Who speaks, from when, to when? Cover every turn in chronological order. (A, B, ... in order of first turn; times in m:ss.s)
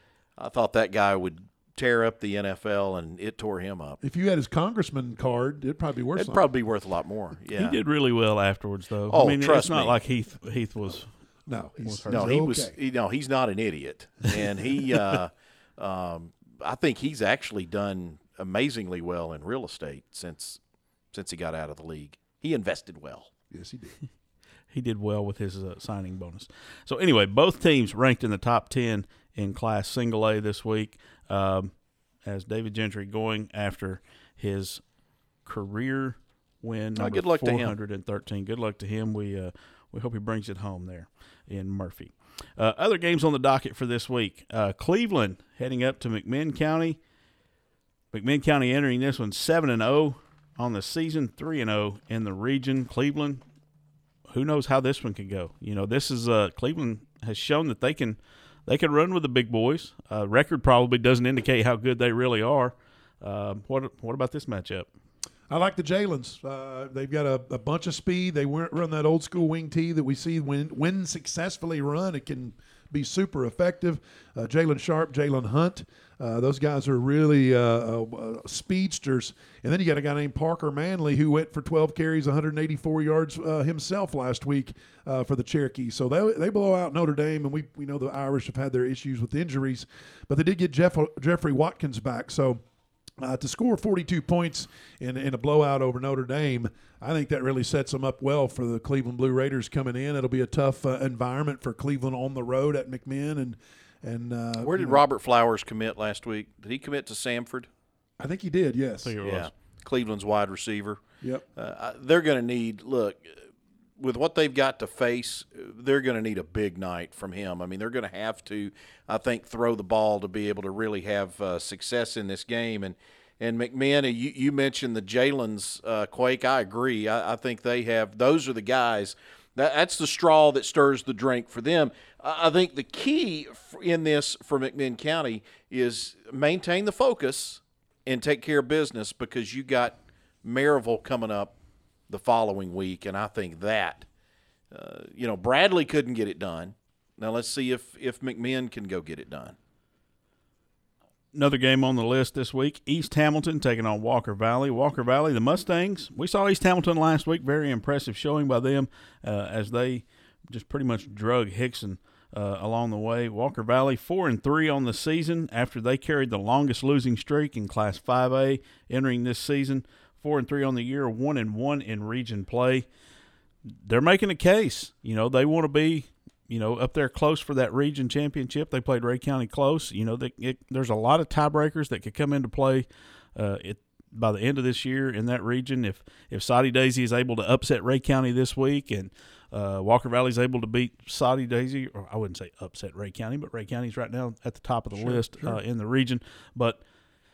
0:00.4-0:04.0 A
0:04.0-0:06.4 B
0:06.2-0:07.8 A
0:07.5-0:11.1 C
0:09.1-0:10.0 A
0:11.5-0:12.7 B
0:11.8-0:12.3 C
0:12.1-0:20.6 A
0:21.1-0:23.3 A
0:23.5-0:24.0 B
0:24.7-0:31.7 C
0:32.2-0:34.8 C
0:35.4-0:47.0 C
0:37.0-0:37.7 A
0:48.1-0:53.4 C
0:54.3-1:04.9 C
1:05.5-1:32.6 B
1:33.2-1:45.0 B
1:44.6-1:47.7 A
1:48.2-1:49.2 B
1:49.0-1:49.5 C
1:49.2-1:51.0 A
1:51.6-1:53.4 A
1:54.0-2:21.6 A
2:22.1-2:24.0 A
2:24.7-2:29.6 A
2:31.3-2:52.8 C
2:53.8-3:16.8 C
3:14.9-3:15.6 B